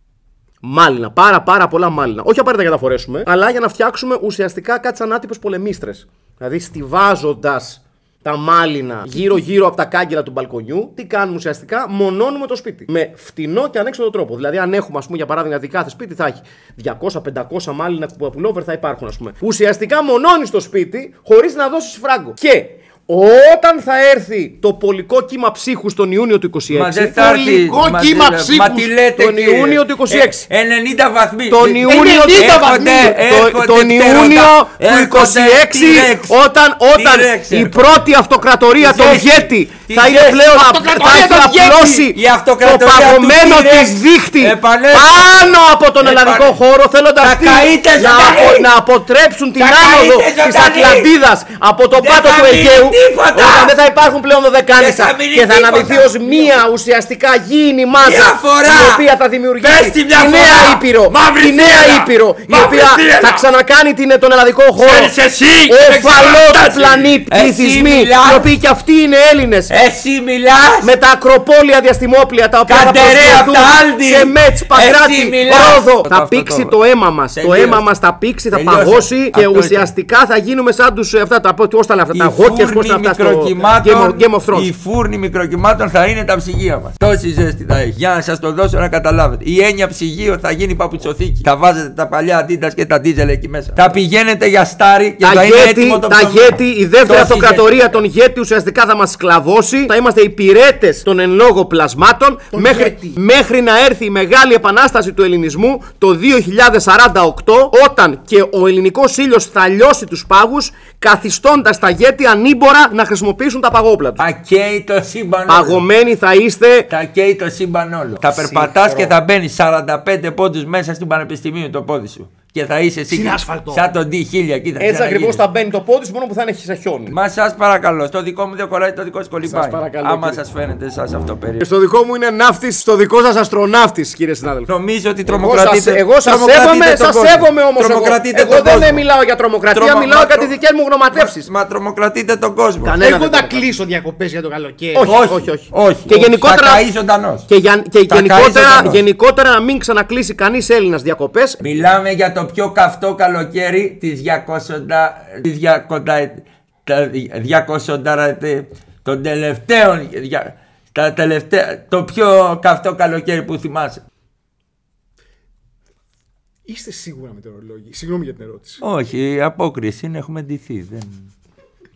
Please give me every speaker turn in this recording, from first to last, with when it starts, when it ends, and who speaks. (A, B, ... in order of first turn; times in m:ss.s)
0:00.6-0:30.5 A
0:26.7-0:36.3 B
0:28.5-0:28.8 C
0:31.5-1:05.1 A
0:31.8-0:33.2 C
0:36.9-0:37.9 B
0:38.8-0:45.1 B
0:40.6-0:41.3 C
0:46.0-0:46.6 B
0:47.2-0:48.7 B
0:49.6-0:51.1 B
0:51.9-0:53.8 B
0:54.8-0:56.6 B
0:58.0-0:59.0 B
0:59.6-1:03.4 B
1:04.8-1:08.5 B
1:05.7-1:09.7 A
1:09.7-1:10.9 B
1:10.8-1:24.7 A
1:12.6-1:16.8 B
1:17.3-1:17.8 B
1:18.5-1:19.9 B
1:22.1-1:37.9 B
1:35.2-1:54.2 A
1:42.5-1:43.2 C
1:54.2-1:55.8 B
1:55.5-1:56.9 A
1:56.9-2:05.4 B
1:58.3-1:59.1 C
2:03.1-2:03.8 C
2:04.8-2:07.2 A
2:07.1-2:11.6 B
2:09.4-2:10.4 A
2:11.6-2:14.7 A
2:14.7-2:19.0 B
2:15.3-2:21.5 A
2:19.7-2:20.5 B
2:21.1-2:23.0 B
2:22.8-2:23.7 A
2:22.9-2:25.1 C
2:24.9-2:26.8 A
2:25.0-2:27.5 B
2:27.5-2:31.6 A
2:28.1-2:29.0 B
2:31.6-2:44.0 B
2:46.7-2:48.8 C
2:48.8-2:51.3 B